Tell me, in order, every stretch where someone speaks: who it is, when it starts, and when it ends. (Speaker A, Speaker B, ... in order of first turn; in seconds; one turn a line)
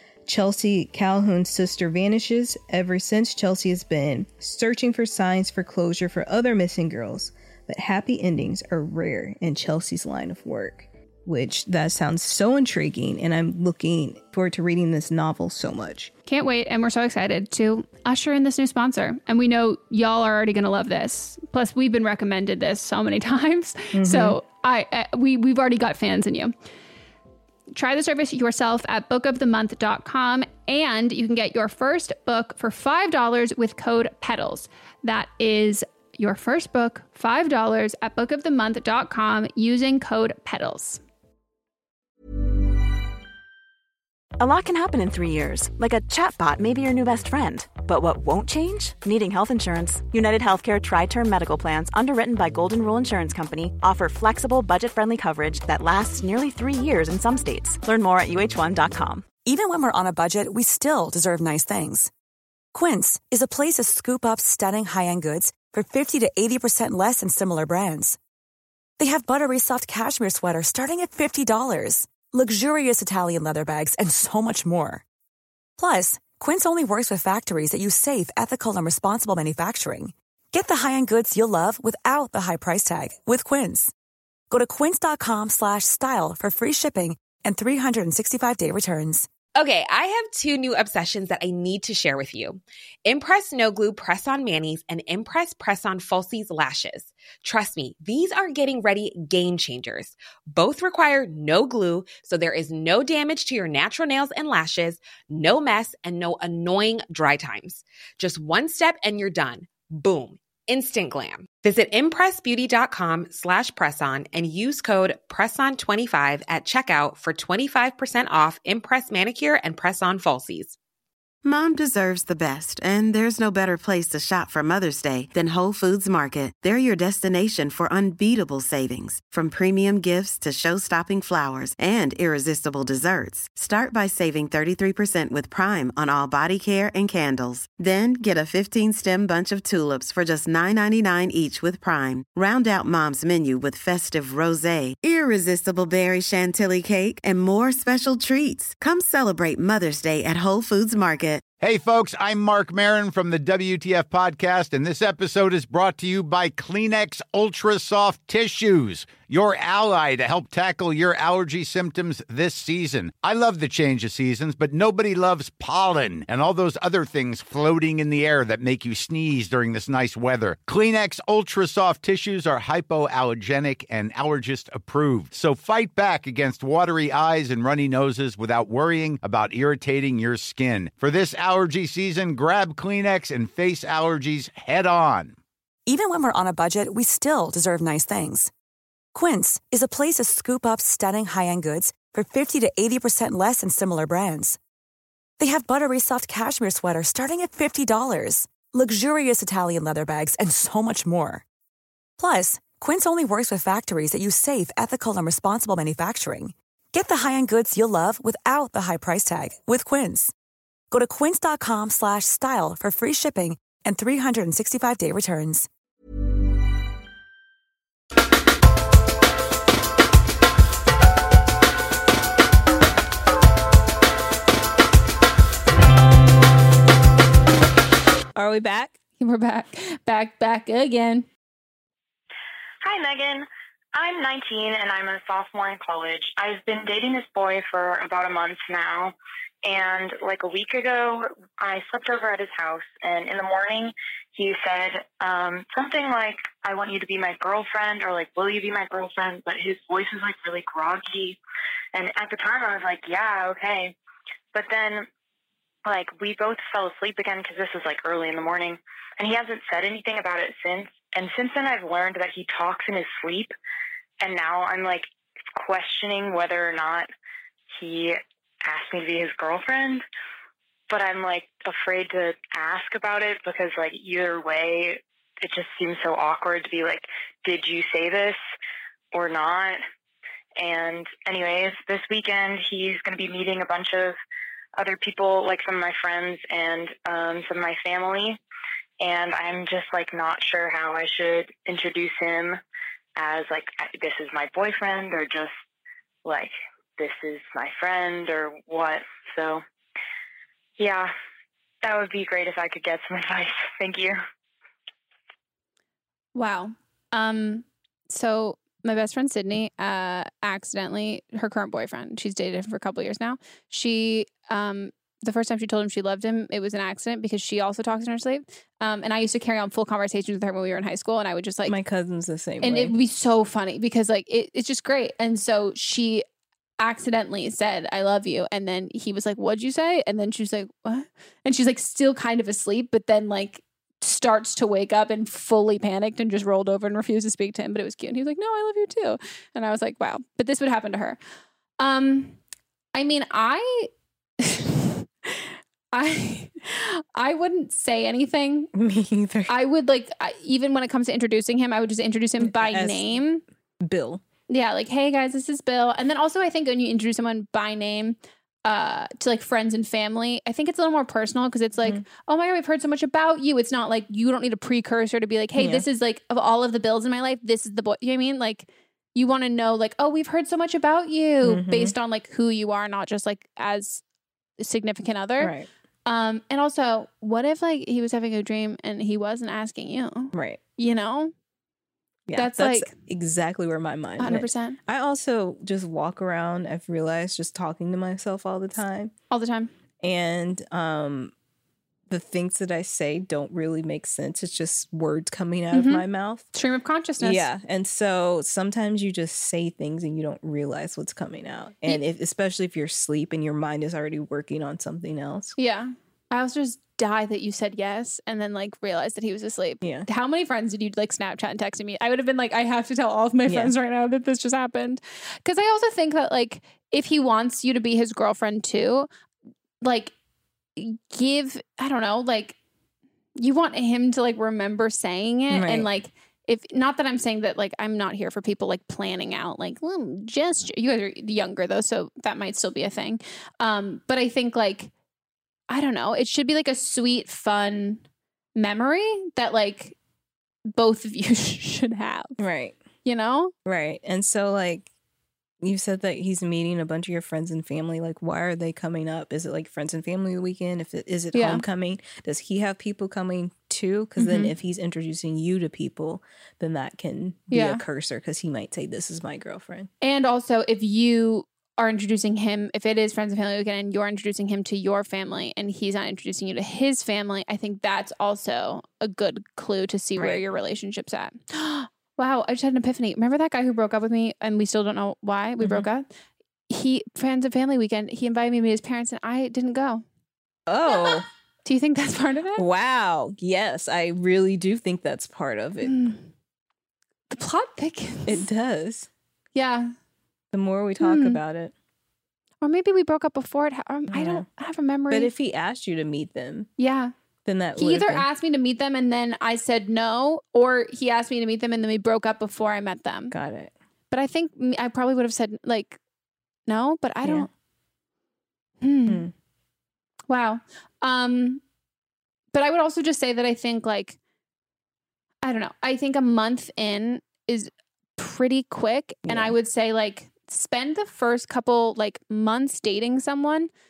Speaker A: 0.2-16.1
Speaker B: 16.2-26.5
Speaker A: 23.9-24.4
Speaker B: 27.7-41.0
Speaker C: 44.4-59.4
Speaker D: 59.4-62.1
Speaker D: 62.7-68.2
Speaker D: 69.0-75.0
Speaker D: 75.8-83.9
Speaker D: 84.5-89.3
Speaker E: 89.5-120.8
Speaker F: 121.4-151.4
Speaker G: 151.6-185.4
Speaker D: 185.9-188.5
Speaker D: 189.1-194.6
Speaker D: 195.4-201.4
Speaker D: 202.2-210.3
Speaker D: 210.9-215.7
Speaker A: 228.3-229.0
Speaker B: 229.2-231.3
Speaker H: 232.8-239.1
Speaker H: 239.6-251.4
Speaker H: 251.9-253.9
Speaker H: 254.5-255.1
Speaker H: 255.8-263.5
Speaker H: 264.2-267.1
Speaker H: 267.7-270.0
Speaker H: 270.9-278.4
Speaker H: 279.1-279.8
Speaker H: 280.6-284.2
Speaker H: 284.8-288.4
Speaker H: 289.0-292.6
Speaker H: 293.2-295.5
Speaker H: 296.2-299.6
Speaker H: 300.8-301.1
Speaker H: 301.8-304.2
Speaker B: 306.3-321.8
Speaker A: 321.6-322.9
Speaker B: 322.6-326.2
Speaker B: 326.8-341.2
Speaker B: 341.8-342.4
Speaker B: 342.9-343.9
Speaker B: 344.4-348.7
Speaker A: 348.7-349.6
Speaker B: 349.5-353.4
Speaker A: 352.4-353.2
Speaker A: 353.8-354.2
Speaker B: 354.5-374.0
Speaker A: 365.6-365.8
Speaker A: 371.4-371.9
Speaker B: 374.6-375.5
Speaker A: 375.4-375.6
Speaker B: 376.1-381.3
Speaker A: 380.3-380.6
Speaker A: 382.3-389.1
Speaker B: 382.4-382.9
Speaker B: 384.2-384.8
Speaker B: 389.3-389.7
Speaker A: 390.0-391.3
Speaker A: 392.1-396.4
Speaker B: 395.7-397.5
Speaker A: 397.2-405.5
Speaker B: 405.6-419.1
Speaker A: 413.4-413.7
Speaker B: 419.8-420.1
Speaker B: 420.8-422.6
Speaker B: 423.4-434.9
Speaker A: 425.5-425.9
Speaker B: 435.7-438.0
Speaker B: 438.6-439.9
Speaker B: 440.7-442.4
Speaker A: 442.4-442.8
Speaker B: 443.0-443.5
Speaker A: 443.6-444.9
Speaker A: 445.6-459.9
Speaker B: 451.3-451.6
Speaker B: 454.2-454.5
Speaker B: 457.5-457.8
Speaker B: 460.0-476.1
Speaker A: 475.6-475.9
Speaker B: 476.7-480.0
Speaker A: 480.7-481.2
Speaker B: 480.9-482.6
Speaker A: 482.6-486.0
Speaker B: 485.8-486.2
Speaker B: 487.3-488.4
Speaker A: 488.2-489.1
Speaker B: 489.5-489.9
Speaker A: 490.5-491.7
Speaker B: 491.0-491.4
Speaker B: 492.6-495.3
Speaker A: 494.1-494.4
Speaker A: 495.1-496.7
Speaker B: 496.8-497.1
Speaker A: 497.4-498.2
Speaker B: 497.8-503.3
Speaker A: 503.3-503.7
Speaker B: 504.1-506.0
Speaker B: 506.7-507.5
Speaker A: 507.2-507.5
Speaker B: 508.8-509.2
Speaker A: 509.1-509.3
Speaker B: 510.3-511.6
Speaker B: 512.5-514.2
Speaker B: 515.4-523.7
Speaker A: 519.2-519.5